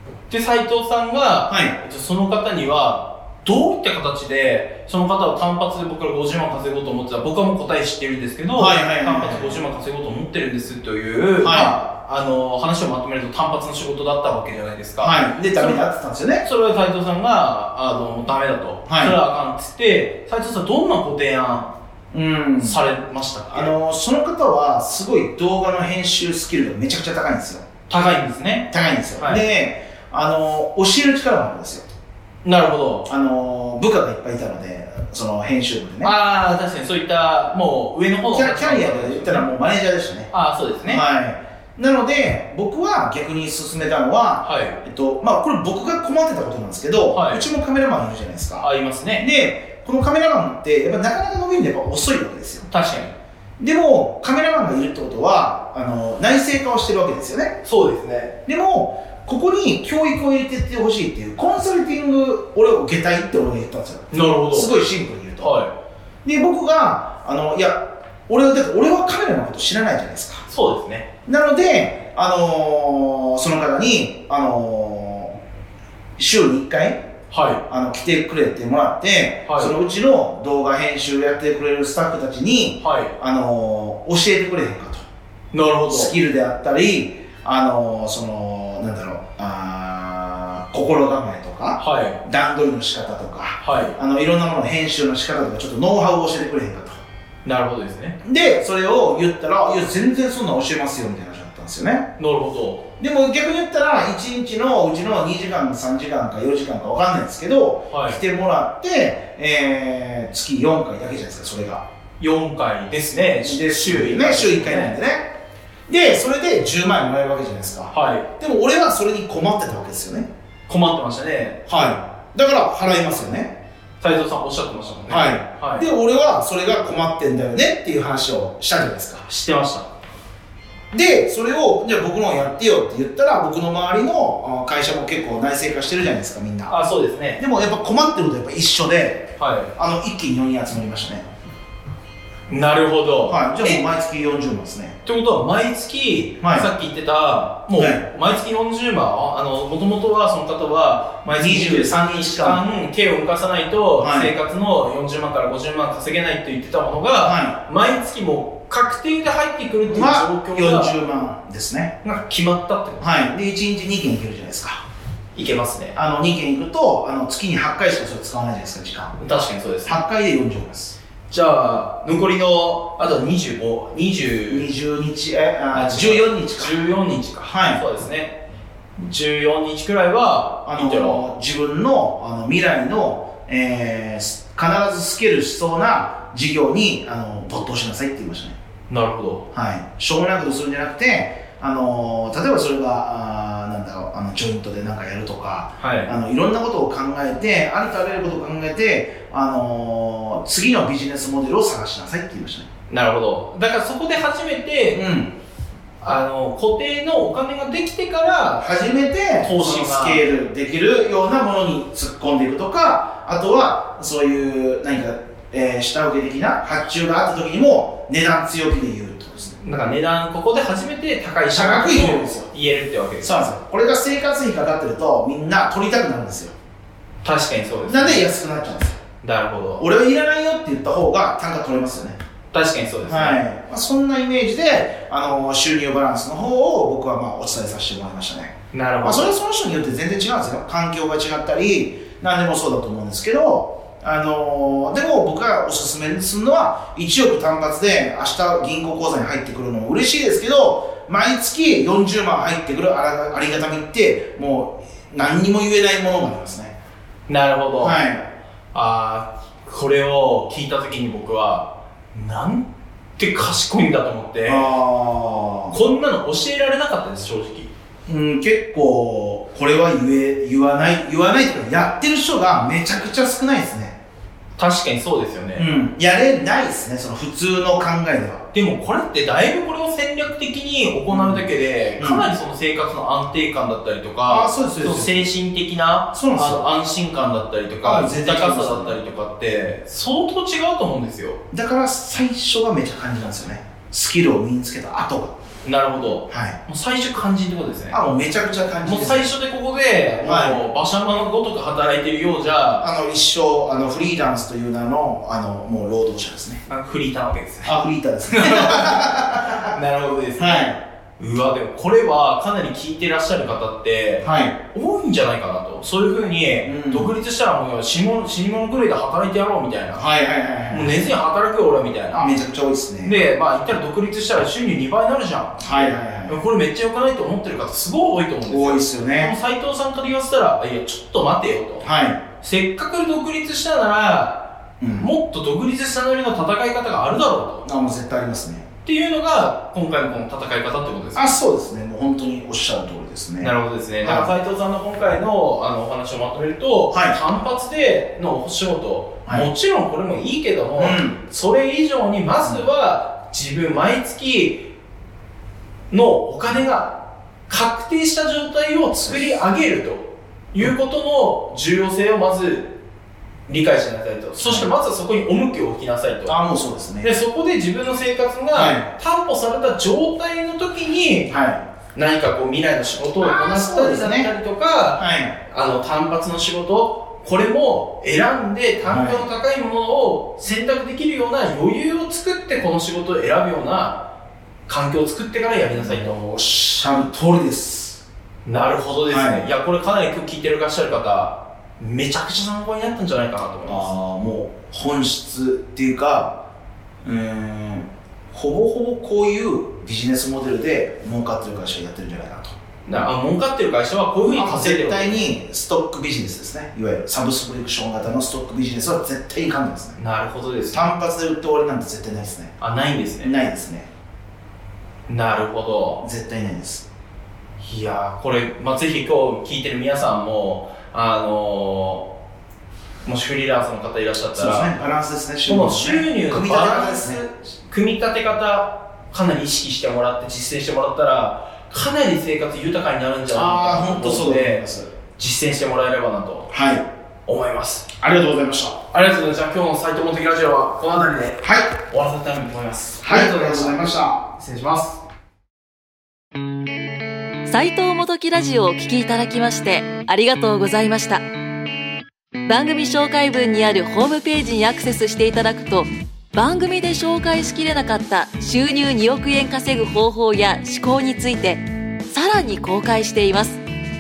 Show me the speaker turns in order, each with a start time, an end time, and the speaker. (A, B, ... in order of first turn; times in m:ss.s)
0:00.3-0:15.8 A
0:01.5-0:01.8 B
0:08.5-0:09.6 B
0:11.4-0:11.8 B
0:15.0-0:16.4 B
0:16.4-0:21.7 A
0:18.9-0:19.2 B
0:22.1-0:22.8 B
0:22.6-0:23.7 A
0:23.5-0:27.6 B
0:27.9-0:29.4 A
0:28.7-0:31.8 B
0:32.4-0:33.1 A
0:33.0-0:36.2 B
0:36.0-0:39.5 A
0:38.3-0:40.3 B
0:40.3-0:41.0 A
0:40.8-0:52.7 B
0:44.4-0:44.8 A
0:47.1-0:47.5 A
0:48.6-0:49.3 A
0:52.7-0:53.1 A
0:53.6-0:57.6 B
0:57.6-0:58.3 A
0:58.4-1:05.6 B
1:04.1-1:04.8 A
1:05.4-1:05.7 A
1:06.2-1:10.4 B
1:10.5-1:11.1 A
1:11.2-1:15.4 B
1:16.2-1:17.0 B
1:17.3-1:17.6 A
1:17.7-1:25.0 B
1:19.4-1:19.7 A
1:22.8-1:23.1 A
1:25.5-1:26.1 A
1:25.9-1:37.0 B
1:31.8-1:32.2 A
1:33.6-1:33.9 A
1:37.4-1:38.2 A
1:38.2-1:42.1 B
1:42.2-1:42.8 A
1:43.0-1:51.8 B
1:47.9-1:48.2 A
1:52.2-1:55.0 A
1:53.4-1:55.3 B
1:55.9-2:00.3 B
1:57.9-1:58.3 A
2:00.7-2:01.9 A
2:01.7-2:03.5 B
2:04.0-2:05.8 A
2:05.1-2:09.2 B
2:09.2-2:09.9 A
2:10.9-2:16.7 B
2:16.6-2:17.4 A
2:17.4-2:21.2 B
2:19.4-2:19.7 A
2:22.5-2:23.8 A
2:23.3-2:25.0 B
2:25.0-2:41.0 A
2:26.4-2:26.7 B
2:27.7-2:28.0 B
2:31.3-2:32.6 B
2:34.0-2:34.3 B
2:37.2-2:37.6 B
2:39.8-2:42.0 B
2:42.0-2:43.3 A
2:43.0-2:44.8 B
2:45.3-2:46.0 A
2:45.9-2:49.2 B
2:49.2-2:50.0 A
2:49.8-2:50.9 B
2:51.3-2:54.7 A
2:54.5-2:56.9 B
2:55.7-2:58.4 A
2:57.4-2:57.8 B
2:59.0-3:01.2 A
3:00.6-3:08.6 B
3:08.9-3:09.4 A
3:09.5-3:22.7 B
3:15.8-3:16.1 A
3:22.9-3:25.1 A
3:24.9-3:25.3 B
3:26.0-3:28.7 A
3:28.6-3:39.6 B
3:29.4-3:30.2 A
3:39.6-3:43.4 A
3:41.5-3:42.5 B
3:43.2-3:46.5 B
3:47.2-3:48.2 A
3:47.8-3:49.0 B
3:49.2-3:49.8 A
3:49.8-3:52.2 B
3:52.5-3:53.4 A
3:53.0-4:16.7 B
3:58.7-3:59.3 A
4:17.3-4:18.0 A
4:17.8-4:18.2 B
4:18.7-4:22.6 A
4:23.2-4:24.7 A
4:24.4-4:25.8 B
4:25.7-4:27.7 A
4:28.1-4:34.0 B
4:34.6-4:35.7 A
4:35.6-4:38.4 B
4:38.5-4:51.4 A
4:41.1-4:42.3 B
4:44.2-4:45.3 B
4:46.1-4:46.7 B
4:47.8-4:49.0 B
4:51.5-4:55.4 B
4:55.6-4:58.0 A
4:56.3-4:56.6 B
4:57.9-4:59.3 B
4:58.8-5:02.9 A
5:00.2-5:00.6 B
5:02.8-5:06.6 B
5:06.7-5:20.0 A
5:07.6-5:09.8 B
5:10.4-5:10.8 B
5:14.2-5:14.6 B
5:16.6-5:17.1 B
5:19.9-5:21.0 B
5:20.7-5:22.4 A
5:22.1-5:23.2 B
5:23.0-5:31.9 A
5:25.6-5:26.4 B
5:28.4-5:29.3 B
5:31.8-5:32.2 B
5:32.4-5:37.7 A
5:34.8-5:35.1 B
5:37.6-5:38.6 B
5:38.8-5:41.3 A
5:41.1-5:44.3 B
5:43.4-5:54.7 A
5:46.9-5:47.2 B
5:50.8-5:51.2 B
5:55.9-6:02.8 A
5:59.0-5:59.4 B
6:03.5-6:06.4 A
6:04.4-6:04.7 B
6:06.3-6:07.1 B
6:07.0-6:11.4 A
6:08.5-6:08.9 B
6:11.3-6:11.6 B
6:11.9-6:24.1 A
6:13.2-6:14.3 B
6:14.9-6:15.4 B
6:18.8-6:19.3 B
6:24.7-6:26.2 A
6:25.7-6:28.0 B
6:28.4-6:33.9 A
6:29.1-6:29.5 B
6:33.7-6:36.4 B
6:37.0-6:42.5 B
6:42.8-6:45.2 A
6:44.2-6:50.0 B
6:50.0-6:50.9 A
6:50.7-6:52.6 B
6:52.6-6:53.3 A
6:53.2-6:53.9 B
6:55.1-6:56.0 A
6:56.0-6:56.8 B
6:57.6-7:02.1 A
7:03.0-7:04.7 A
7:04.3-7:07.2 B
7:05.4-7:16.5 A
7:13.3-7:14.9 B
7:16.5-7:16.9 B
7:17.2-7:17.9 A
7:18.0-7:18.8 B
7:18.9-7:25.0 A
7:21.4-7:21.7 B
7:23.0-7:24.2 B
7:27.4-7:31.2 C
7:32.4-7:43.6 C